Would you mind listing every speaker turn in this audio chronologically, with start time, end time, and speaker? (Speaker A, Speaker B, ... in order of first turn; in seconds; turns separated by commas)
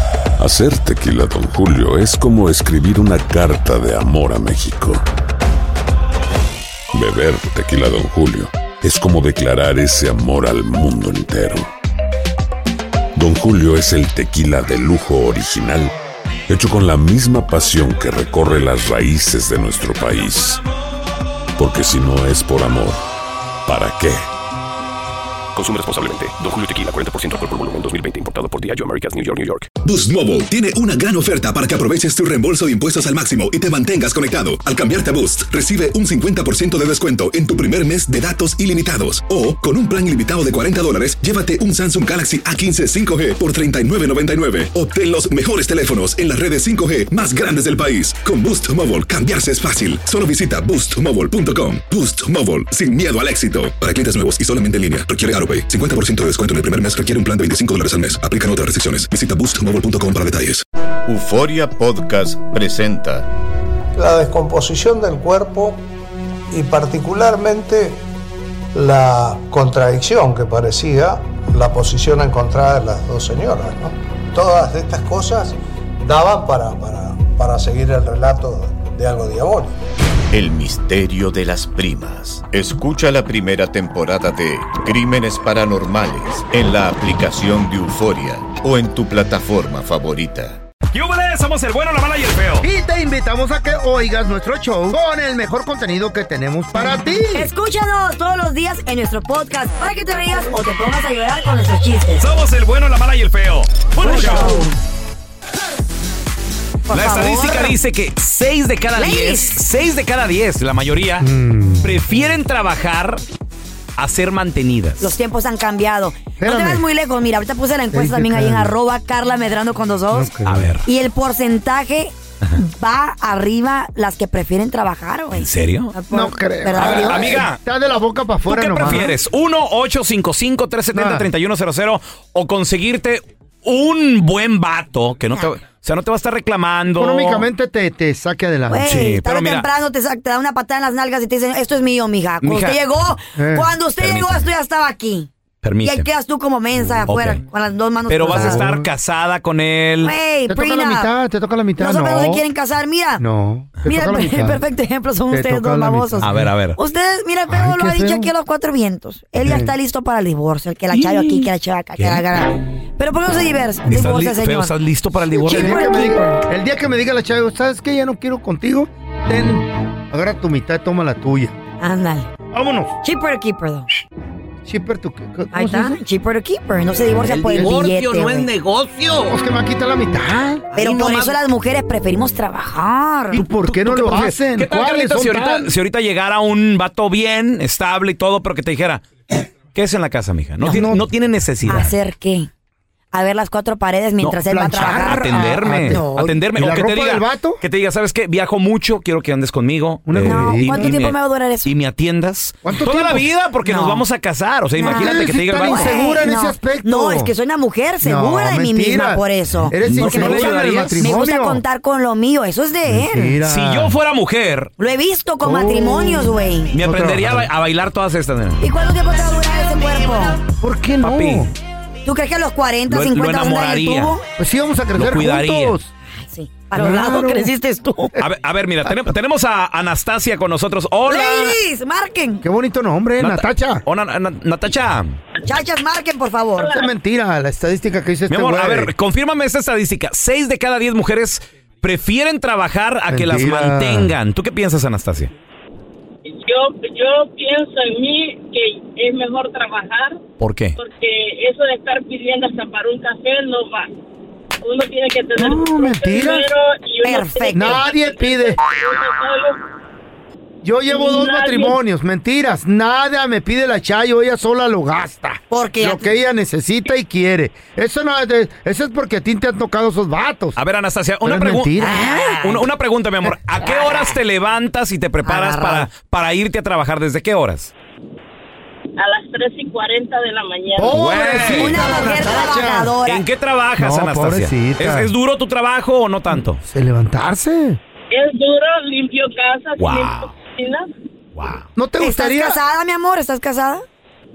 Speaker A: 0.4-5.0, Speaker A: 6.9-11.7, Speaker A: 13.1-15.9, Speaker A: 16.5-20.6, Speaker A: 21.6-23.0, Speaker A: 23.7-24.3, Speaker B: 25.5-29.7, Speaker C: 29.8-60.6, Speaker D: 61.0-63.3, Speaker E: 64.0-65.8, Speaker E: 66.5-68.0, Speaker E: 68.7-79.8, Speaker D: 80.3-90.6, Speaker F: 90.9-92.7, Speaker G: 92.6-97.5, Speaker H: 97.3-102.2, Speaker F: 102.2-104.7, Speaker H: 104.0-104.8, Speaker H: 106.9-107.8, Speaker F: 106.9-111.3, Speaker H: 109.0-109.5, Speaker G: 111.2-111.9, Speaker F: 111.8-113.2, Speaker F: 114.0-115.1, Speaker H: 115.0-120.3, Speaker G: 116.4-116.8, Speaker G: 117.9-118.7, Speaker G: 120.1-120.7, Speaker F: 120.4-120.9, Speaker H: 120.8-127.5, Speaker F: 125.3-125.9, Speaker G: 126.1-129.1, Speaker F: 126.8-127.6, Speaker F: 128.5-137.5, Speaker G: 130.9-131.3, Speaker G: 136.9-139.0, Speaker H: 138.7-145.3, Speaker F: 138.9-139.7, Speaker F: 142.4-142.8, Speaker G: 143.3-143.7, Speaker F: 144.0-144.5, Speaker F: 145.6-146.1, Speaker H: 145.8-148.7, Speaker G: 146.8-147.1, Speaker F: 147.1-147.4, Speaker F: 148.1-150.2, Speaker G: 148.3-148.9, Speaker H: 150.0-151.1, Speaker G: 150.5-152.4, Speaker H: 151.8-153.2, Speaker G: 153.2-154.6, Speaker H: 153.8-164.8, Speaker G: 155.3-156.5, Speaker F: 156.2-156.8, Speaker G: 157.5-158.3, Speaker G: 159.4-159.7, Speaker F: 162.0-162.2, Speaker F: 163.9-165.9, Speaker H: 165.3-166.4, Speaker G: 165.4-171.6, Speaker H: 171.8-172.3, Speaker G: 172.5-172.9, Speaker H: 173.0-173.9, Speaker G: 174.7-176.0, Speaker H: 175.5-178.5, Speaker F: 177.2-179.4, Speaker G: 177.4-177.8, Speaker G: 179.3-180.7, Speaker F: 180.7-181.4, Speaker H: 180.7-183.4, Speaker G: 183.3-185.7, Speaker F: 183.6-189.0, Speaker F: 189.7-191.9, Speaker G: 190.6-191.0, Speaker H: 191.7-192.5, Speaker H: 193.1-196.2, Speaker F: 194.2-205.9, Speaker G: 194.5-197.6, Speaker G: 200.1-200.9, Speaker H: 200.2-201.7, Speaker G: 202.6-203.3, Speaker H: 203.7-204.0, Speaker G: 204.8-207.3, Speaker H: 204.8-213.4, Speaker G: 208.0-211.6, Speaker F: 209.8-211.1, Speaker G: 212.9-213.9, Speaker F: 213.4-214.7, Speaker H: 214.8-216.7, Speaker G: 215.4-217.5, Speaker F: 216.7-218.6, Speaker H: 218.6-220.4, Speaker G: 220.6-221.5, Speaker F: 221.0-221.5, Speaker H: 222.0-224.2, Speaker F: 222.9-224.2, Speaker G: 224.4-225.9, Speaker F: 224.9-225.8, Speaker H: 226.2-227.5, Speaker G: 226.8-227.5, Speaker F: 226.8-231.6, Speaker H: 231.1-232.4, Speaker G: 232.4-233.8, Speaker F: 233.2-235.2, Speaker H: 235.4-236.8, Speaker G: 236.6-238.9, Speaker F: 238.3-245.3, Speaker G: 243.1-244.1, Speaker I: 246.2-250.2, Speaker F: 250.4-250.8, Speaker I: 250.8-253.9, Speaker I: 254.6-259.6, Speaker G: 255.4-256.5, Speaker H: 257.0-257.8, Speaker G: 257.5-258.6, Speaker G: 260.6-270.6, Speaker I: 260.9-261.8, Speaker H: 265.5-266.0, Speaker F: 270.6-277.7, Speaker G: 271.2-272.1, Speaker H: 271.8-272.7, Speaker H: 273.6-274.1, Speaker H: 275.2-275.9, Speaker I: 279.0-281.0, Speaker G: 280.8-282.9, Speaker F: 280.9-281.8, Speaker H: 281.4-283.2, Speaker F: 283.1-286.6, Speaker G: 283.8-285.1, Speaker G: 286.6-287.8, Speaker I: 288.1-290.9, Speaker F: 289.8-290.3, Speaker F: 291.4-291.7, Speaker G: 291.8-292.6, Speaker H: 292.0-293.8